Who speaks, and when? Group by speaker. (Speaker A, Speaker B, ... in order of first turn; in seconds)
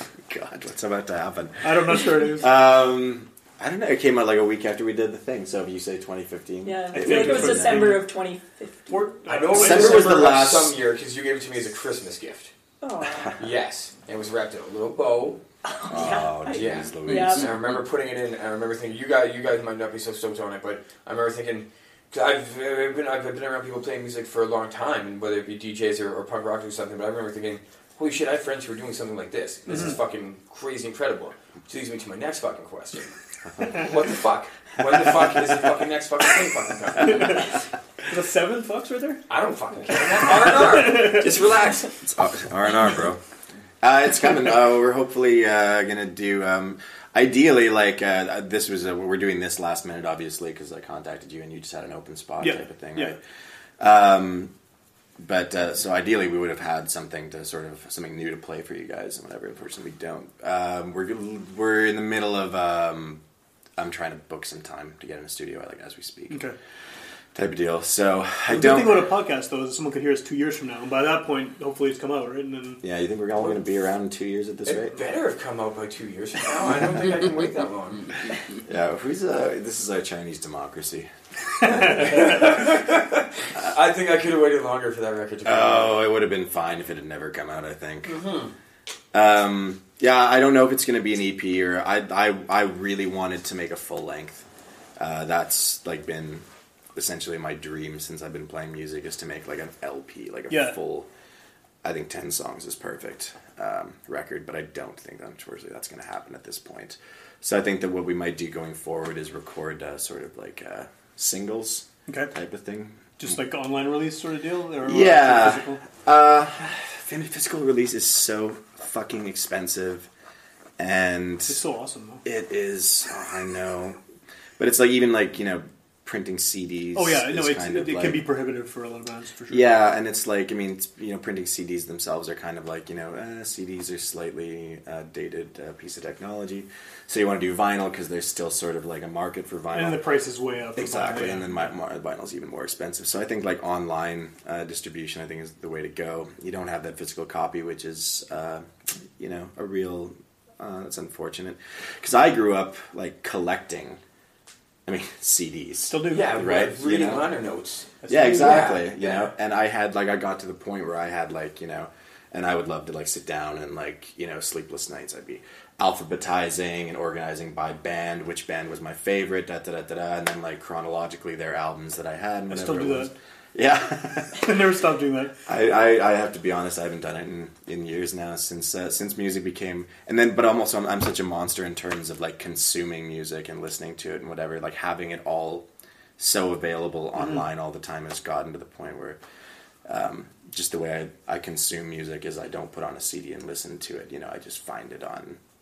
Speaker A: 0.3-8.0, 9.5-10.8, 15.9-17.5, 42.0-43.2, 43.8-53.2, 53.8-54.5, 55.2-63.2, 63.8-66.5, 67.3-69.1, 72.8-75.0, 78.7-81.1, 81.6-82.1, 85.4-88.2, 89.1-94.4, 95.0-101.1, 101.8-113.3, 114.8-120.1, 120.8-121.6, 122.2-124.0, 124.6-128.3, 129.5-140.1, 140.7-148.7, 149.2-154.0, 154.8-157.3, 158.1-174.5, 175.4-185.7, 186.2-189.2, 189.9-195.4
Speaker B: 1.6-2.5, 6.9-8.1, 8.9-10.2, 37.0-37.4, 38.1-39.2, 40.7-41.2, 52.4-53.1, 66.3-66.5, 68.5-72.8, 100.5-100.8, 112.1-112.3, 113.2-115.8, 121.5-122.2, 126.9-129.7, 139.7-141.7, 155.9-156.4, 158.0-158.7, 172.5-173.1, 174.3-175.3
Speaker C: 6.6-9.2, 12.8-13.4, 15.7-17.5
Speaker D: 9.2-12.5, 13.4-15.4, 16.5-33.1, 33.7-37.4, 39.3-41.9, 74.7-78.1, 81.8-86.0, 88.1-88.5, 156.1-159.3